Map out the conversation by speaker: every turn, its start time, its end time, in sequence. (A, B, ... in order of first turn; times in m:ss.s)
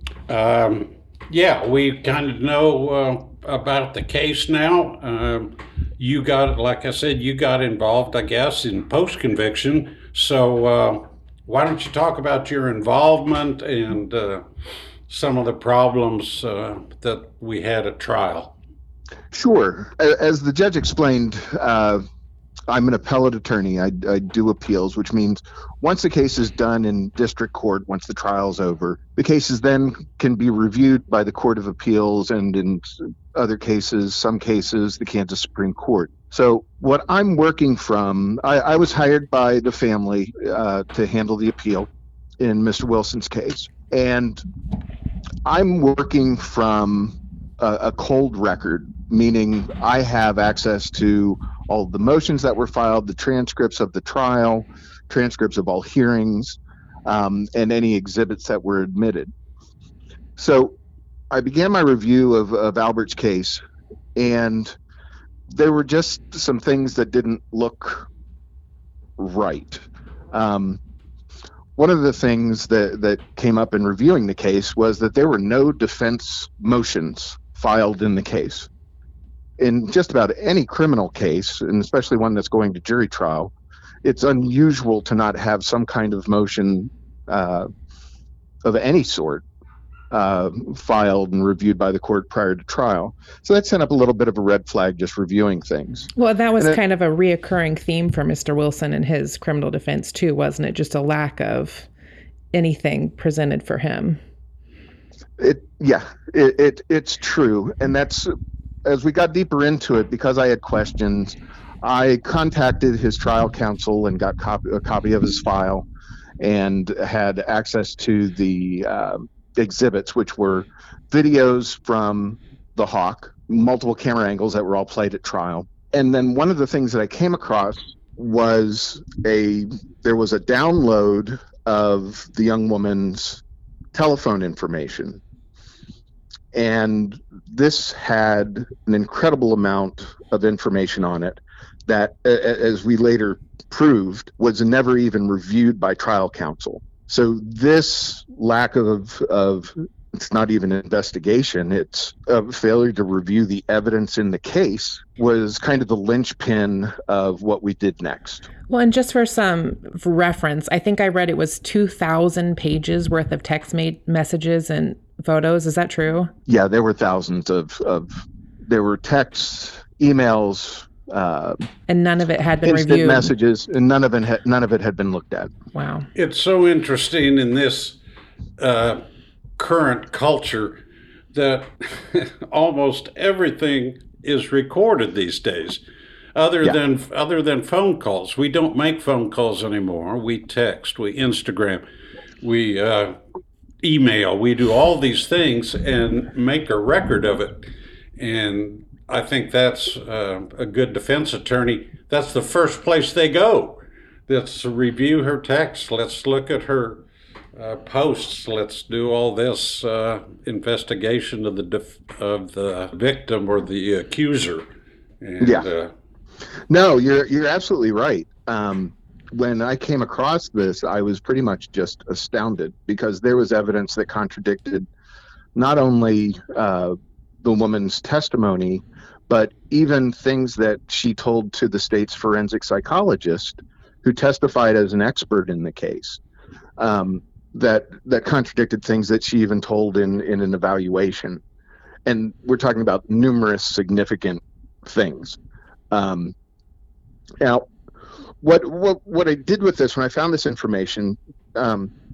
0:00.3-0:14.4 A
0:15.1-0:18.6 A
0:19.3-0:22.0 B
0:22.7-0:41.9 B
0:42.4-0:44.4 B
0:45.4-0:59.3 B
1:00.4-1:00.8 B
1:01.3-1:03.6 B
1:04.2-1:04.8 B
1:05.5-1:08.1 B
1:09.2-1:10.8 B
1:11.8-1:18.7 B
1:19.6-1:23.5 B
1:24.0-1:27.7 B
1:28.6-1:29.4 B
1:30.1-1:36.8 B
1:36.2-1:41.9 C
1:42.5-1:44.2 C
1:45.4-1:48.3 B
1:48.8-1:55.9 B
1:56.4-2:13.4 B
2:13.9-2:15.2 B
2:16.5-2:38.5 B
2:38.7-2:46.3 C
2:46.5-2:51.6 B
2:51.9-2:53.3 C
2:52.6-2:55.5 B
2:55.8-2:56.1 C
2:56.2-2:58.0 A
2:58.6-2:59.0 A
2:59.6-3:00.8 A
3:01.3-3:05.8 A
3:06.4-3:11.9 A
3:12.4-3:13.2 A
3:13.8-3:27.0 A
3:27.6-3:34.7 A
3:35.2-3:35.9 A
3:35.4-3:35.7 B
3:36.7-3:44.9 B
3:45.6-3:56.2 B
3:56.8-4:01.4 B
4:02.1-4:05.4 B
4:05.9-4:06.4 B
4:07.4-4:07.7 B
4:08.4-4:11.9 B